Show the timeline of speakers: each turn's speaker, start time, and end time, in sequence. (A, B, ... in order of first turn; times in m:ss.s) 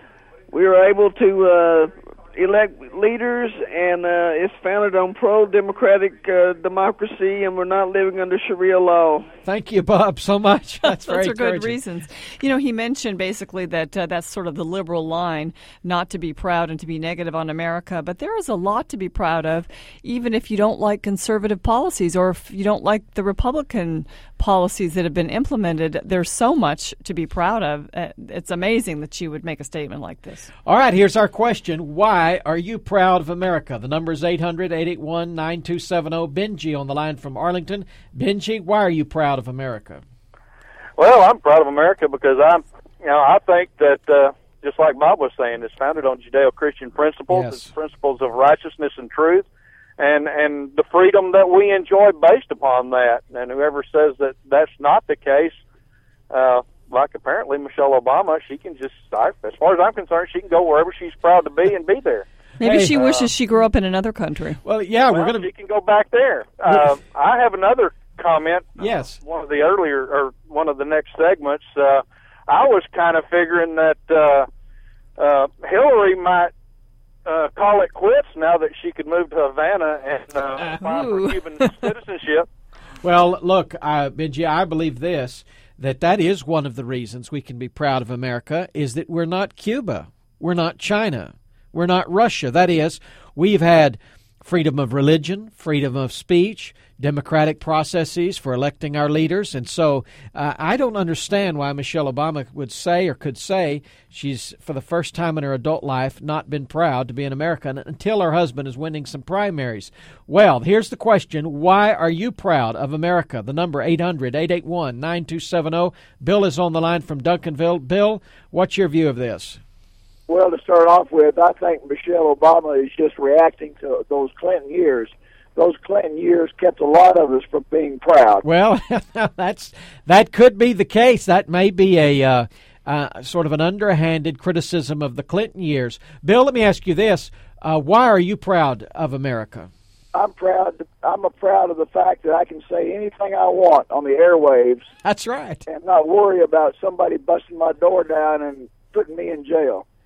0:00.5-0:09.3 A
0:09.4-0:11.8 B
0:10.9-0:30.5 C
0:30.6-0:40.0 B
0:41.0-0:49.5 D
0:47.3-0:47.7 B
0:50.0-0:55.6 D
0:56.3-1:02.3 D
1:02.6-1:04.6 C
1:02.6-1:03.0 B
1:02.8-1:03.2 D
1:04.6-1:05.5 B
1:05.1-1:14.5 D
1:08.8-1:09.2 B
1:15.2-1:16.5 D
1:17.3-1:22.5 D
1:20.8-1:21.7 C
1:23.0-1:59.6 B
2:00.3-2:08.4 E
2:08.4-2:19.7 B
2:20.1-2:24.9 E
2:25.0-2:25.6 B
2:25.7-2:29.8 E